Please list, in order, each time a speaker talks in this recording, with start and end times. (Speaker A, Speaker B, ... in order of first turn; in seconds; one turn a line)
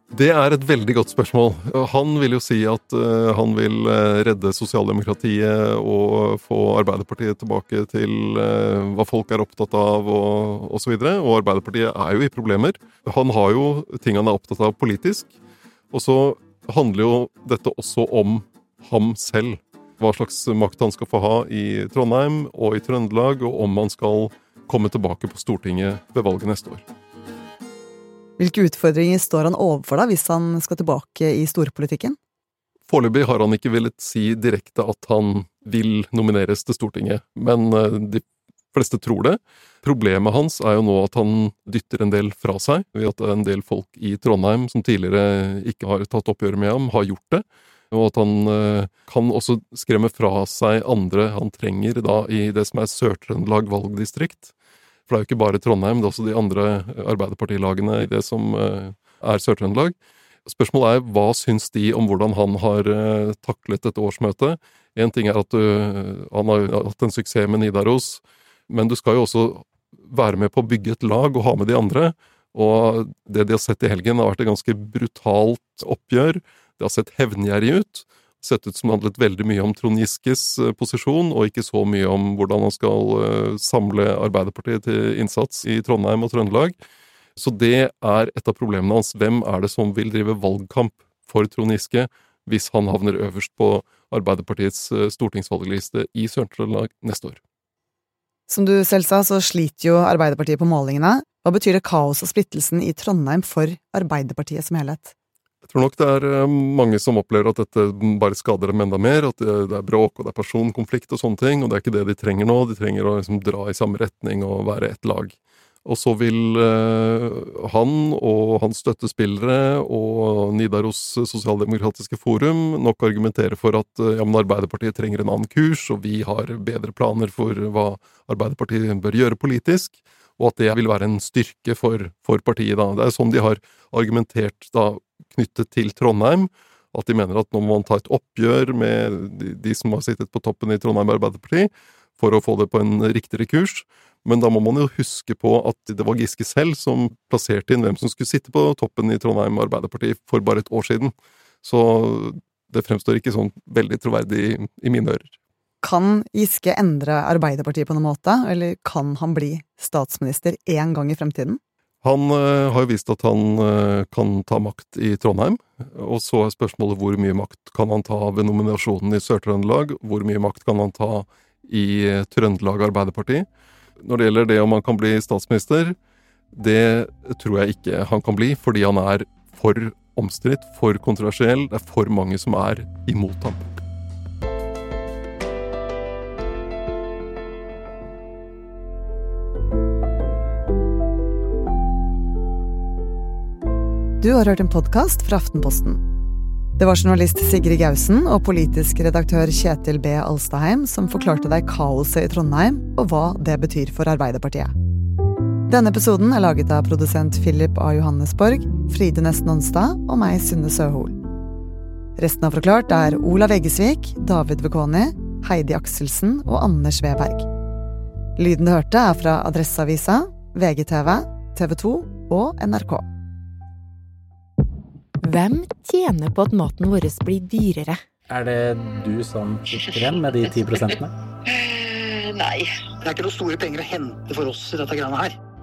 Speaker A: 0.1-15.3
Speaker A: 15.9-26.8
Speaker B: 28.4-32.2
Speaker A: 32.9-54.5
Speaker A: 55.1-60.0
Speaker A: 60.5-86.8
Speaker A: 87.4-97.4
Speaker B: 98.5-105.1
Speaker A: 105.7-155.3
Speaker B: 155.8-161.6
Speaker A: 162.0-173.5
Speaker A: 174.0-176.0
Speaker A: 176.5-183.7
Speaker B: 194.2-196.0
Speaker B: 196.8-204.7
Speaker B: 205.7-211.2
Speaker B: 212.2-217.5
Speaker B: 218.4-223.1
Speaker C: 225.2-228.0
Speaker D: 228.3-231.1
Speaker E: 233.1-235.3